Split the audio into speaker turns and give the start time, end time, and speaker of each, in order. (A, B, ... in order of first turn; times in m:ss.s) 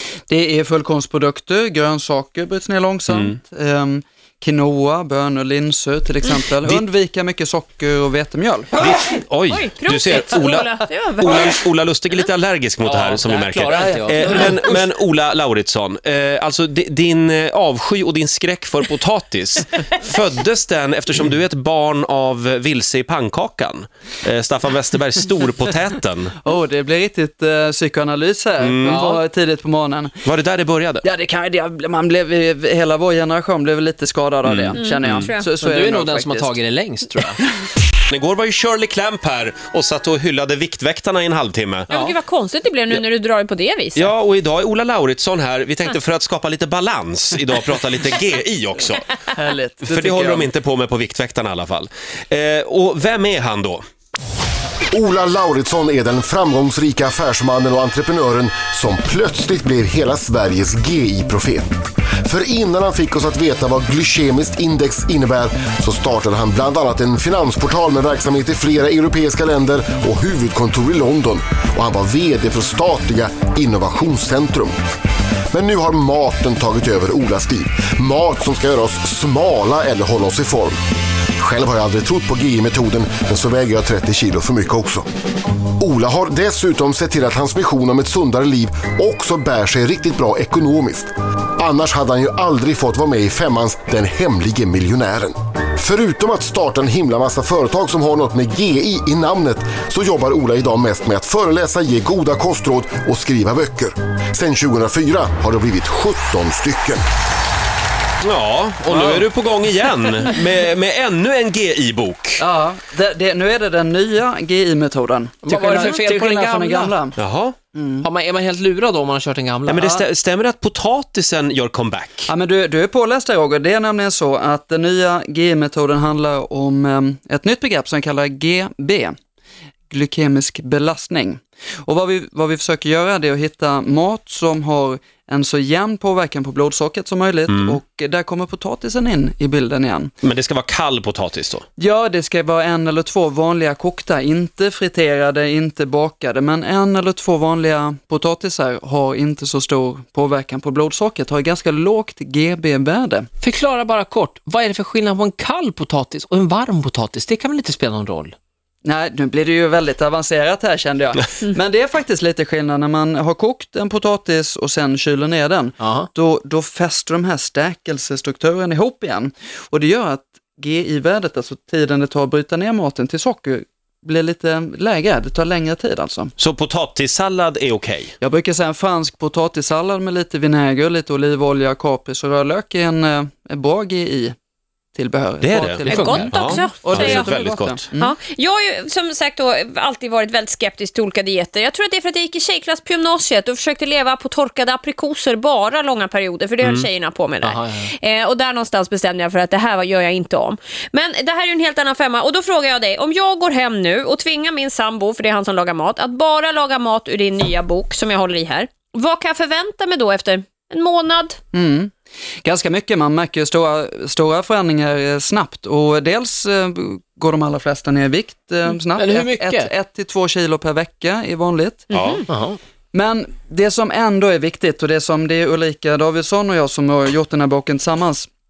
0:00.3-0:08.7 A
0:03.1-0:03.4 B
0:08.8-0:26.4 B
0:09.5-0:11.6 C
0:12.8-0:14.6 D
0:13.8-0:14.5 A
0:26.4-0:30.2 A
0:28.6-0:29.1 B
0:28.8-0:29.2 D
0:30.2-0:31.1 B
0:31.0-0:36.6 A
0:34.4-0:35.3 B
0:34.8-0:35.5 C
0:35.6-0:37.4 D
0:38.1-0:41.9 B
0:41.9-0:44.1 C
0:44.0-0:49.1 B
0:49.3-0:50.5 A
0:49.8-0:53.8 B
0:54.9-1:01.7 E
1:02.2-1:14.8 E
1:15.5-1:20.8 E
1:21.4-1:25.1 E
1:25.8-1:47.0 E
1:48.2-1:52.4 B
1:48.9-1:49.2 A
1:52.4-1:57.2 A
1:55.4-1:57.0 D
1:55.7-1:56.0 C
1:57.2-1:57.6 B
1:57.7-1:58.1 A
1:58.0-2:00.0 D
1:59.7-2:02.3 B
2:02.3-2:09.2 A
2:09.9-2:20.1 A
2:17.5-2:17.8 B
2:20.2-2:21.6 B
2:21.8-2:33.3 A
2:33.4-2:38.3 D
2:38.8-2:56.3 A
2:45.8-2:46.1 D
2:56.4-2:58.1 B
2:58.2-3:04.4 A
3:05.0-3:08.2 A
3:05.4-3:07.8 B
3:05.9-3:07.4 C
3:05.9-3:06.4 D
3:08.0-3:31.4 C
3:16.6-3:16.9 B
3:17.4-3:17.9 D
3:31.5-3:41.9 A
3:38.7-3:39.7 D
3:41.9-3:42.2 C
3:41.9-3:42.3 B
3:42.3-3:42.6 D
3:42.9-3:48.3 A